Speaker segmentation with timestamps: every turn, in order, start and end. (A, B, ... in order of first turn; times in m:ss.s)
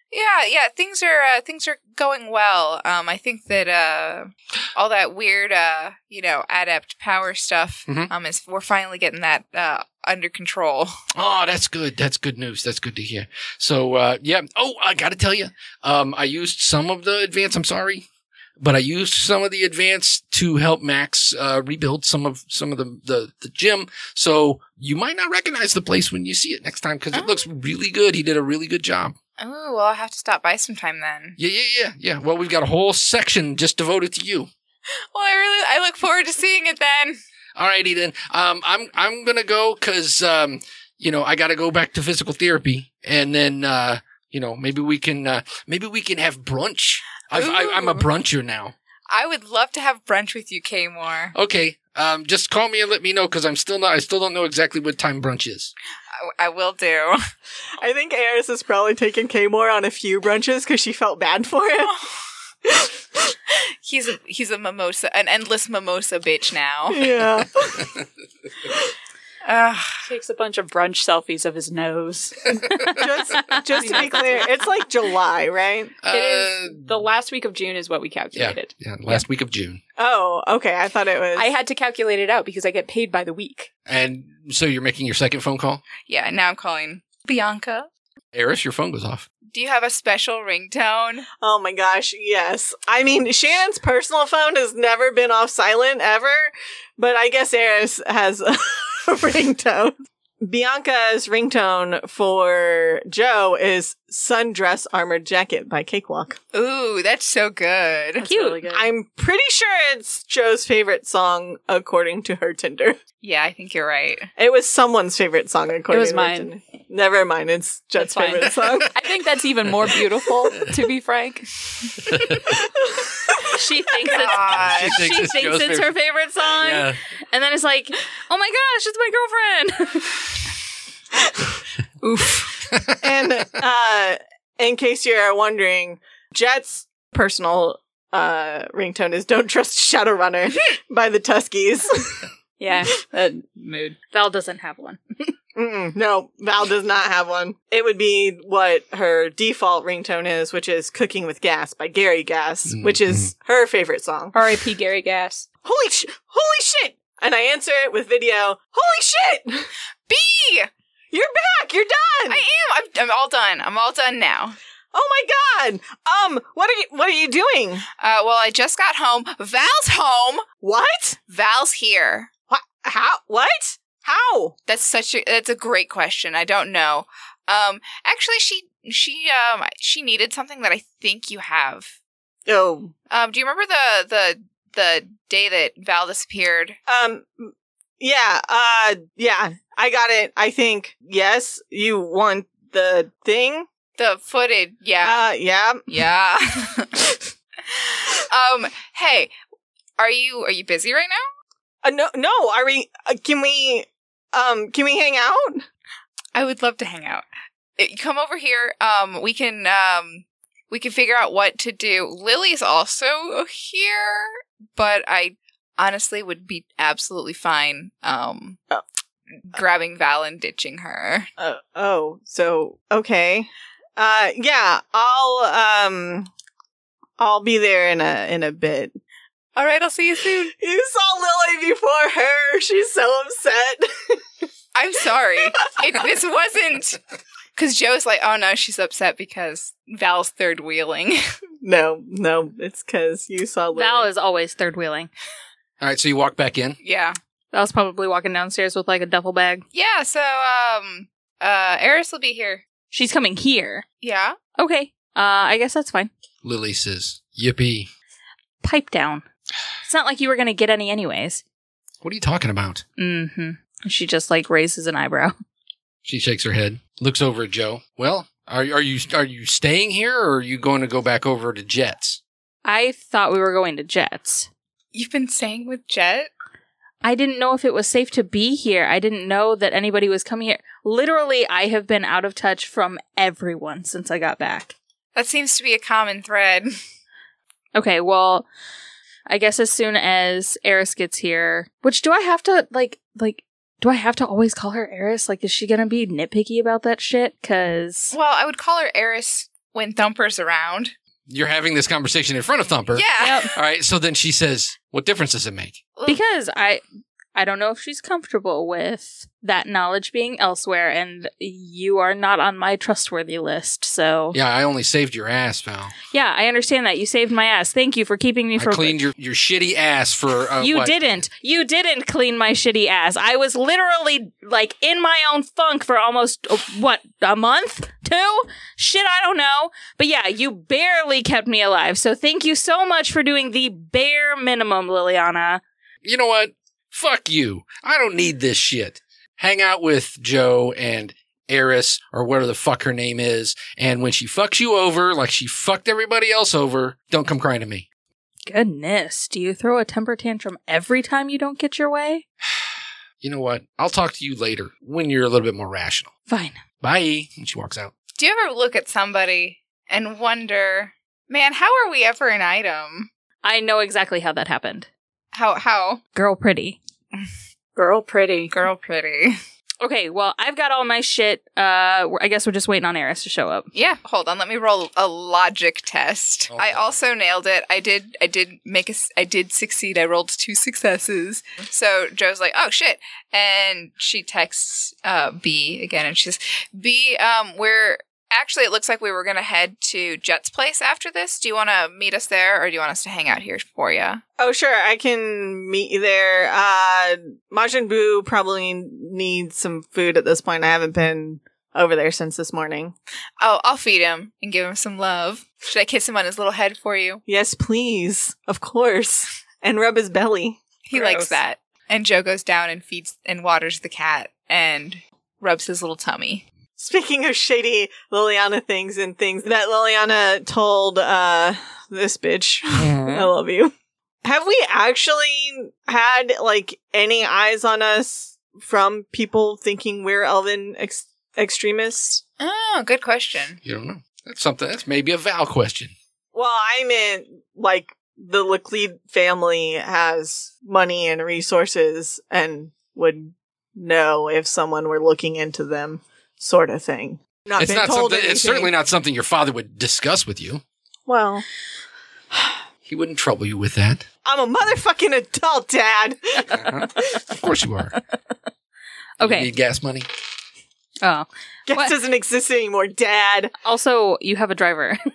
0:00.1-0:11.0 A
0:11.1-0:18.0 B
0:18.6-0:29.2 B
0:27.1-0:27.4 A
0:29.4-0:31.4 A
0:31.4-0:34.5 B
0:35.1-0:37.2 A
0:37.6-0:48.7 B
0:47.3-0:48.1 A
0:49.1-0:51.3 A
0:51.3-0:55.7 B
0:56.2-0:57.2 A
0:57.8-1:02.0 C
1:02.6-1:03.3 C
1:03.5-1:07.2 A
1:06.9-1:07.9 C
1:09.4-1:10.0 A
1:10.0-1:13.1 D
1:13.0-1:15.9 C
1:13.7-1:14.5 D
1:16.0-1:16.9 B
1:16.1-1:19.2 D
1:18.3-1:19.8 B
1:20.0-1:21.5 C
1:21.4-1:23.7 D
1:23.9-1:25.8 B
1:26.0-1:27.9 A
1:28.3-1:29.3 B
1:29.5-1:31.2 A
1:31.4-1:46.4 C
1:46.5-1:48.2 A
1:48.2-1:48.8 E
1:48.2-1:48.8 D
1:48.3-1:53.0 C
1:53.2-1:54.3 A
1:54.4-1:59.0 C
1:55.9-1:56.5 D
1:58.0-2:02.2 D
2:00.5-2:00.8 B
2:02.1-2:02.6 B
2:02.5-2:03.4 C
2:03.5-2:10.2 E
2:04.1-2:05.0 A
2:04.5-2:05.9 B
2:06.6-2:07.0 B
2:12.0-2:12.5 D
2:12.7-2:13.0 B
2:13.0-2:22.2 C
2:22.6-2:24.0 D
2:24.1-2:25.0 E
2:25.6-2:34.5 C
2:32.7-2:33.3 B
2:34.3-2:35.5 D
2:35.6-2:39.7 C
2:40.1-2:40.7 A
2:41.1-2:42.4 C
2:42.3-2:44.6 A
2:44.9-2:47.8 C
2:48.0-2:50.4 A
2:50.6-2:51.2 C
2:51.3-2:52.3 A
2:52.5-2:54.5 C
2:54.7-3:01.9 A
3:02.5-3:02.9 C
3:03.1-3:06.8 A
3:06.9-3:13.7 C
3:14.0-3:15.3 A
3:15.0-3:15.8 C
3:15.9-3:19.3 A
3:20.0-3:21.3 A
3:21.8-3:25.6 C
3:26.3-3:27.2 A
3:27.8-3:38.6 A
3:39.5-3:41.3 A
3:41.4-3:46.3 C
3:47.2-3:49.0 C
3:49.6-3:50.5 A
3:50.5-3:54.2 C
3:54.7-3:57.0 A
3:57.6-4:01.2 A
4:01.6-4:04.1 C
4:03.7-4:05.1 E
4:05.8-4:06.8 B
4:06.8-4:07.2 A
4:07.5-4:09.6 E
4:09.7-4:12.6 A
4:12.9-4:13.8 E
4:14.0-4:14.4 A
4:14.6-4:16.1 E
4:16.4-4:17.9 B
4:18.6-4:19.2 E
4:19.8-4:21.4 E
4:22.0-4:22.8 B
4:23.0-4:25.3 E
4:26.0-4:32.2 B
4:32.6-4:34.5 E
4:34.9-4:36.3 A
4:37.0-4:44.7 E
4:45.2-4:46.7 A
4:47.7-4:48.5 E
4:49.3-4:58.1 E
4:58.1-5:00.9 A
5:01.3-5:05.8 B
5:02.9-5:03.5 A
5:03.2-5:03.5 E
5:06.0-5:06.8 E
5:07.3-5:14.4 E
5:14.3-5:15.9 B
5:16.1-5:19.0 E
5:18.6-5:20.9 B
5:20.6-5:35.6 E
5:36.0-5:47.8 B
5:48.5-5:52.2 E
5:53.2-5:56.1 B
5:56.3-5:56.6 E
5:56.8-5:57.9 B
5:58.2-6:03.1 A
6:03.4-6:04.9 E
6:05.3-6:06.0 A
6:06.1-6:06.8 E
6:07.8-6:08.5 D
6:08.5-6:09.4 A
6:09.8-6:13.7 E
6:13.7-6:34.2 A
6:16.5-6:16.8 B
6:34.4-6:42.9 C
6:43.4-6:47.2 A
6:47.3-6:50.6 C
6:50.9-6:56.4 A
6:56.8-7:03.7 C
7:02.8-7:03.3 B
7:04.2-7:12.2 C
7:12.4-7:13.6 A
7:13.6-7:15.9 B
7:16.3-7:28.7 C
7:27.6-7:30.6 B
7:31.0-7:31.4 C
7:32.9-7:34.0 B
7:34.2-7:37.2 C
7:36.5-7:38.0 B
7:39.2-7:39.5 E
7:39.2-7:40.1 B
7:41.0-7:42.0 E
7:41.7-7:43.5 C
7:43.6-7:45.0 E